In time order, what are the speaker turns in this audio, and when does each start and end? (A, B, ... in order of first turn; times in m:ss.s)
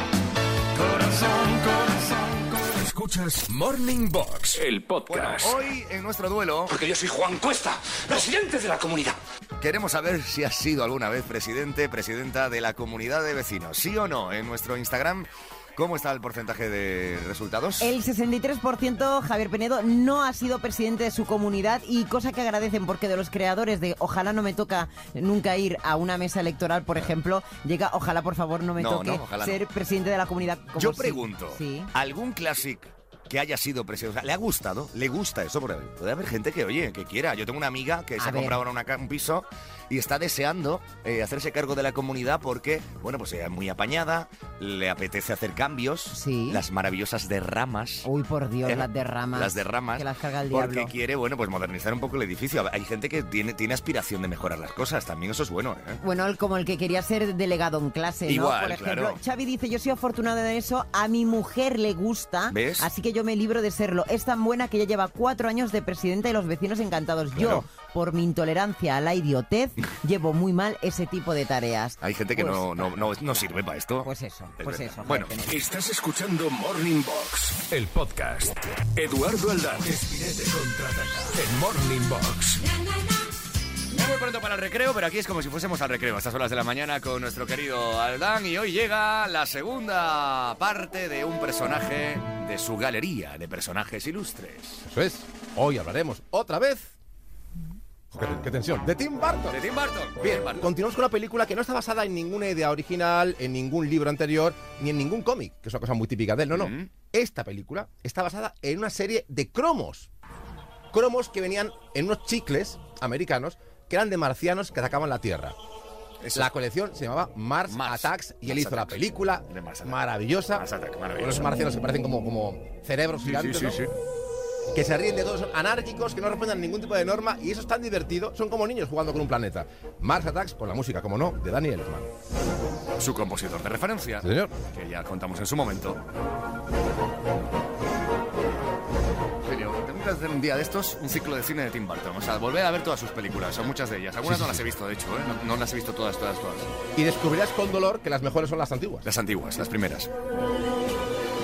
0:00.8-0:05.6 A
0:05.1-0:06.7 B
0:06.7-0:09.2 C
0:09.6-0:17.9 B
0:17.8-0:31.9 D
0:28.8-0:29.6 B
0:30.8-0:48.1 B
0:38.2-0:38.6 D
0:46.1-0:46.6 D
0:48.0-0:50.9 D
0:48.6-0:56.0 B
0:56.0-1:13.5 D
0:58.2-0:59.2 B
1:02.5-1:02.9 B
1:07.3-1:07.6 B
1:12.0-1:15.3 B
1:14.0-1:15.5 D
1:15.4-1:22.6 A
1:23.9-1:34.8 B
1:34.8-1:36.9 E
1:38.1-1:39.6 E
1:39.5-1:40.7 B
1:40.2-1:50.1 E
1:46.5-1:46.9 B
1:50.9-1:55.6 E
1:56.2-1:56.5 B
1:56.3-2:03.8 E
1:57.7-2:01.6 B
2:03.2-2:03.9 B
2:04.7-2:12.1 E
2:13.0-2:16.0 B
2:14.2-2:14.5 E
2:19.4-2:26.7 B
2:24.2-2:24.6 E
2:27.0-2:29.1 E
2:29.0-2:30.1 B